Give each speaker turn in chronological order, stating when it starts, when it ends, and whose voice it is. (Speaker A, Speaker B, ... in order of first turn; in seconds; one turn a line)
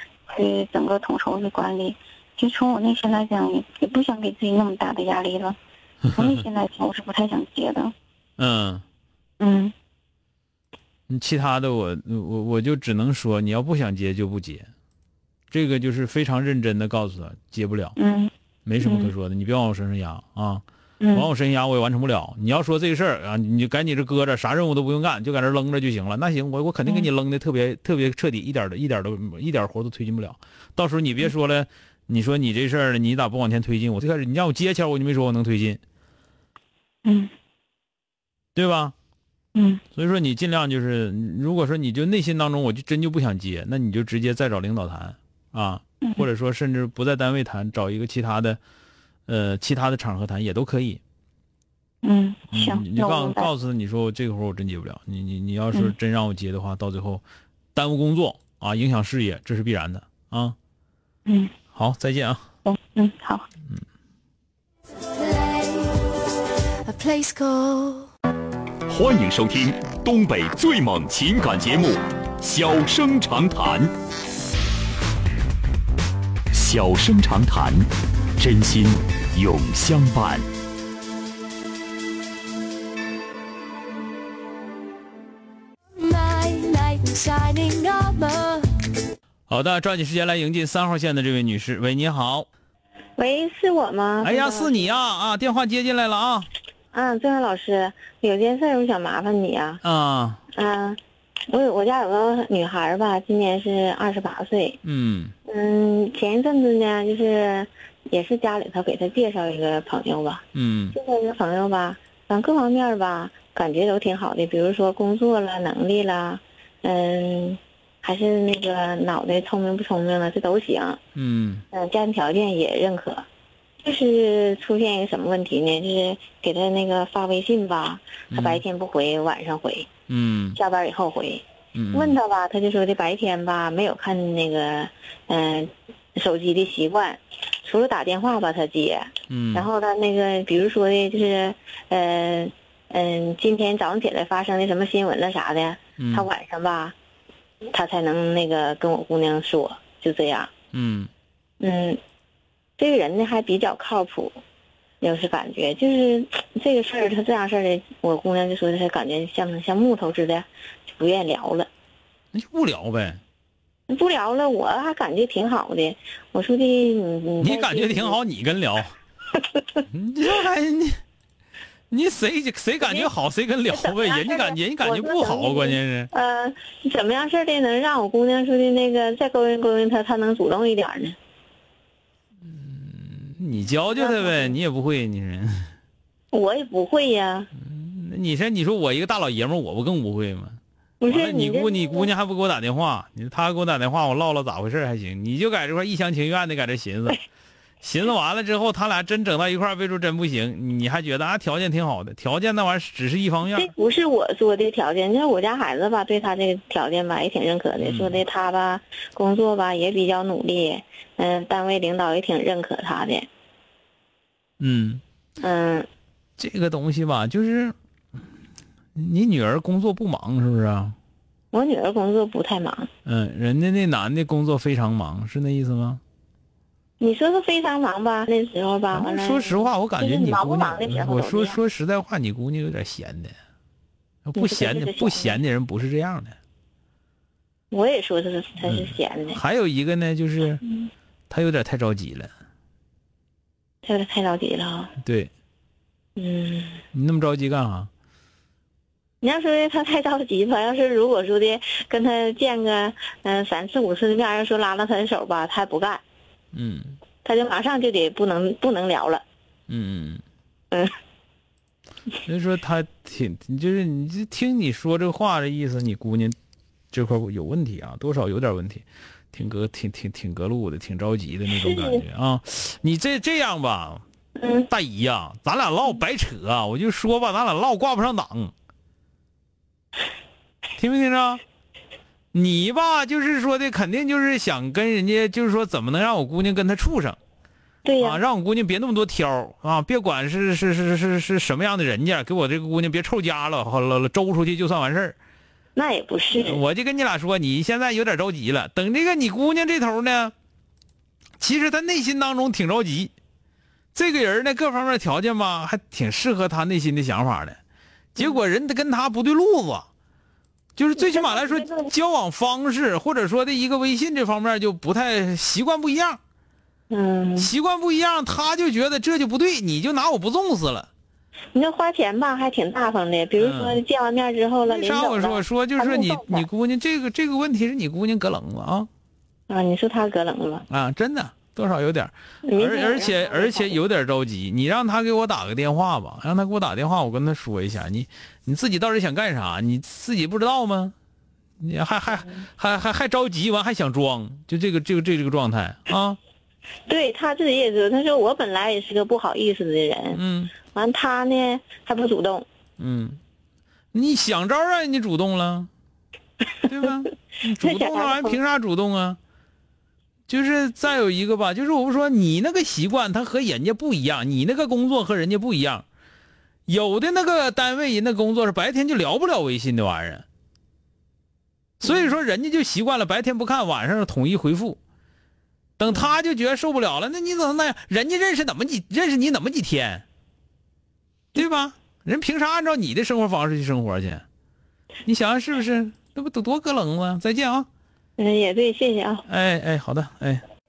Speaker A: 0.3-5.6
Speaker A: 6.1-7.9
Speaker B: 8.4-8.8
Speaker A: 9.4-9.7
Speaker B: 11.1-14.7
Speaker B: 15.5-17.9
Speaker A: 18.0-19.1
Speaker B: 18.7-35.8
Speaker A: 21.0-21.3
Speaker A: 37.0-37.3
Speaker B: 38.6-38.9
Speaker A: 39.5-39.8
Speaker B: 39.9-48.6
Speaker B: 49.3-51.0
Speaker A: 52.0-53.5
Speaker B: 52.5-57.2
Speaker B: 57.8-60.6
Speaker A: 61.3-61.5
Speaker B: 61.7-62.4
Speaker A: 62.6-63.5
Speaker C: 65.2-66.0
Speaker C: 66.9-68.0
Speaker D: 68.9-73.9
Speaker D: 76.5-80.5
Speaker C: 86.0-88.7
Speaker B: 89.5-92.5
Speaker E: 93.2-95.0
Speaker B: 94.2-96.5
Speaker E: 96.9-99.8
Speaker B: 99.8-100.4
Speaker E: 100.5-101.0
Speaker E: 101.5-104.8
Speaker B: 104.8-105.3
Speaker E: 105.5-121.0
Speaker B: 110.5-111.0
Speaker B: 121.2-121.7
Speaker E: 121.7-123.2
Speaker E: 123.8-129.9
Speaker B: 128.3-128.6
Speaker B: 130.1-130.6
Speaker E: 130.6-146.9
Speaker B: 131.8-132.2
Speaker B: 139.3-139.7
Speaker B: 146.0-146.3
Speaker E: 147.7-150.5
Speaker B: 150.7-151.1
Speaker E: 151.6-152.0
Speaker E: 152.8-154.4
Speaker E: 155.0-161.7
Speaker B: 162.3-163.2
Speaker E: 163.9-168.2
Speaker B: 167.4-169.0
Speaker B: 169.9-171.0
Speaker B: 171.9-176.1
Speaker E: 172.8-173.1
Speaker E: 173.7-181.2
Speaker B: 182.5-185.7
Speaker E: 183.9-184.6
Speaker E: 186.3-187.5
Speaker B: 187.6-190.6
Speaker E: 191.0-192.1
Speaker B: 191.1-197.2
Speaker B: 197.8-203.7
Speaker E: 203.6-213.3
Speaker B: 207.8-208.2
Speaker B: 214.6-215.0
Speaker E: 215.4-215.9
Speaker B: 216.4-217.7
Speaker B: 219.0-220.9
Speaker E: 221.5-222.9
Speaker B: 223.1-226.0
Speaker E: 227.0-231.6
Speaker B: 228.9-233.3
Speaker B: 234.3-236.3
Speaker E: 234.4-235.4
Speaker E: 237.7-239.4
Speaker B: 238.7-240.6
Speaker B: 241.3-242.3
Speaker E: 243.8-244.9
Speaker B: 245.0-245.3
Speaker E: 246.2-246.8
Speaker B: 246.9-247.9
Speaker E: 249.2-256.0
Speaker B: 256.5-257.0
Speaker E: 257.2-259.2
Speaker B: 259.7-260.2
Speaker B: 262.3-266.4
Speaker B: 266.9-274.0
Speaker E: 271.6-272.0
Speaker E: 274.4-274.7
Speaker B: 274.7-278.5
Speaker B: 280.8-281.4
Speaker B: 282.3-287.2
Speaker E: 287.9-288.2
Speaker B: 288.0-295.2
Speaker E: 295.8-296.6
Speaker B: 296.4-300.3
Speaker B: 301.4-303.1
Speaker B: 303.9-307.6
Speaker B: 308.2-309.9
Speaker B: 310.8-316.2
Speaker E: 311.0-311.9
Speaker E: 316.9-317.5
Speaker B: 317.4-320.9
Speaker E: 321.5-326.5
Speaker B: 323.4-323.8
Speaker B: 324.6-328.9
Speaker E: 329.5-330.6
Speaker B: 330.7-340.9
Speaker E: 332.4-333.8
Speaker B: 341.6-346.2
Speaker E: 346.9-352.5
Speaker B: 350.1-350.5
Speaker B: 352.8-353.2
Speaker B: 353.9-355.7
Speaker B: 356.7-359.2
Speaker E: 357.6-358.4
Speaker B: 360.3-365.9
Speaker B: 366.7-370.2
Speaker B: 371.8-374.8
Speaker E: 371.8-372.2
Speaker B: 375.8-380.1
Speaker E: 375.9-376.1
Speaker B: 381.4-384.2
Speaker B: 385.1-387.7
Speaker E: 388.2-389.2
Speaker B: 389.3-390.4